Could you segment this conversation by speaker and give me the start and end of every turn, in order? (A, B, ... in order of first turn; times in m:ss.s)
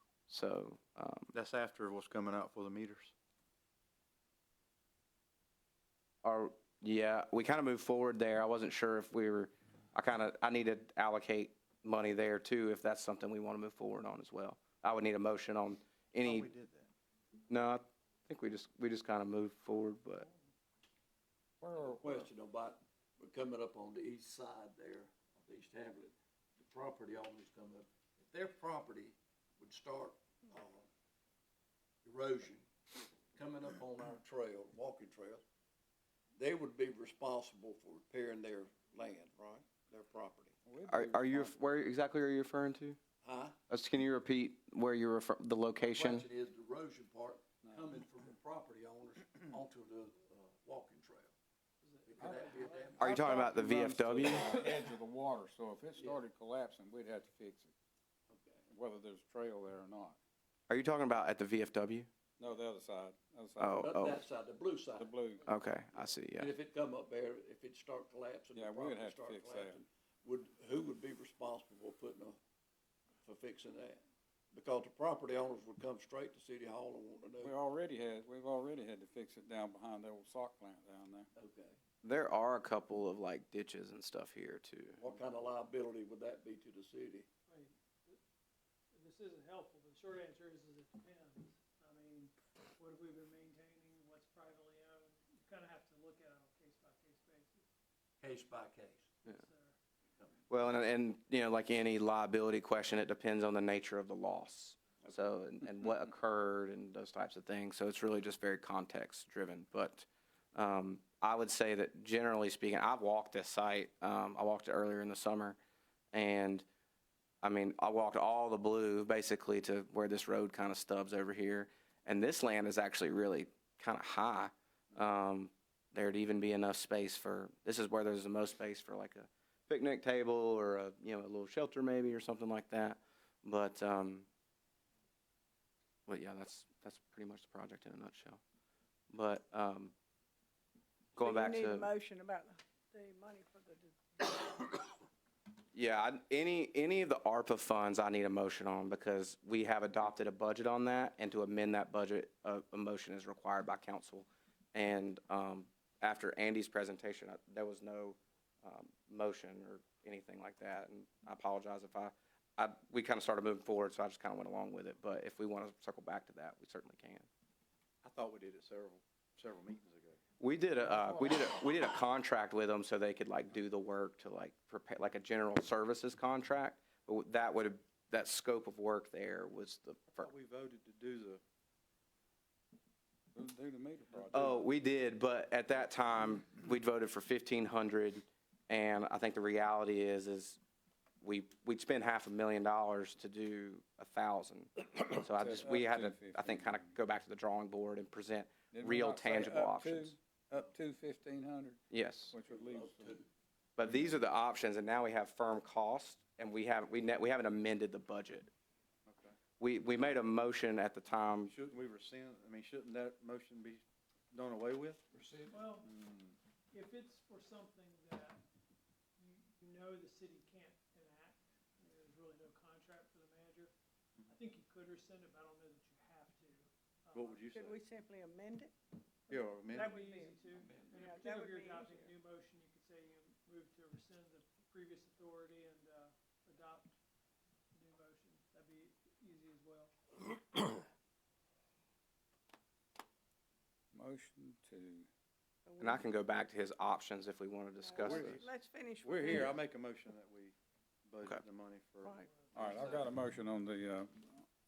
0:00.3-0:01.3 A
0:01.3-0:03.1 B
0:06.2-0:16.5 A
0:16.2-0:16.9 B
0:17.5-0:20.2 A
0:21.6-0:22.2 C
0:21.8-0:30.9 D
0:32.0-0:32.7 D
0:33.3-0:35.4 D
0:36.4-0:40.5 D
0:40.6-0:41.5 C
0:40.9-0:43.0 A
0:43.2-0:43.6 D
0:43.7-0:46.2 A
0:45.8-0:51.3 D
0:47.6-0:47.9 C
0:51.8-0:53.0 E
0:52.1-0:53.1 D
0:52.2-0:57.7 C
0:53.0-0:54.7 A
0:55.9-0:56.2 D
0:58.3-0:58.6 D
0:58.7-1:00.2 C
1:00.7-1:02.1 A
1:02.4-1:03.9 C
1:03.6-1:04.2 A
1:03.8-1:05.1 D
1:05.0-1:05.4 C
1:05.4-1:06.5 A
1:06.4-1:12.4 D
1:08.5-1:09.8 C
1:13.2-1:14.0 D
1:14.5-1:17.5 D
1:17.4-1:21.3 C
1:21.3-1:21.8 D
1:22.0-1:25.0 A
1:25.0-1:27.2 D
1:27.5-1:28.2 E
1:28.9-1:37.7 E
1:38.2-1:39.2 D
1:39.2-1:39.8 E
1:40.5-1:55.6 A
1:56.1-1:56.6 A
1:57.4-2:14.3 A
2:16.0-2:18.4 A
2:19.1-2:19.9 A
2:21.2-2:21.9 A
2:21.2-2:24.5 F
2:25.7-2:47.3 A
2:48.0-2:50.2 B
2:50.4-3:00.3 A
3:00.2-3:01.4 B
3:03.3-3:04.6 C
3:04.3-3:10.6 A
3:11.2-3:20.2 A
3:15.3-3:16.9 C
3:18.7-3:23.2 C
3:21.9-3:22.3 A
3:22.6-3:23.2 D
3:23.8-3:28.5 A
3:29.0-3:29.3 B
3:29.6-3:31.5 A
3:31.5-3:35.0 B
3:35.1-3:35.6 D
3:35.5-3:35.9 E
3:35.8-3:36.4 B
3:36.7-3:38.4 E
3:39.2-3:43.7 E
3:44.3-3:47.5 E
3:47.1-3:47.8 B
3:47.5-3:48.7 F
3:49.3-3:49.9 B
3:49.3-3:56.9 E
3:49.7-3:52.1 F
3:57.7-4:00.8 E
4:03.9-4:05.1 C
4:05.6-4:06.1 F
4:05.8-4:08.4 A
4:07.8-4:09.6 F
4:08.0-4:08.5 B
4:09.0-4:10.5 B
4:11.1-4:13.0 B
4:12.0-4:12.4 F
4:12.3-4:13.0 E
4:12.5-4:14.4 C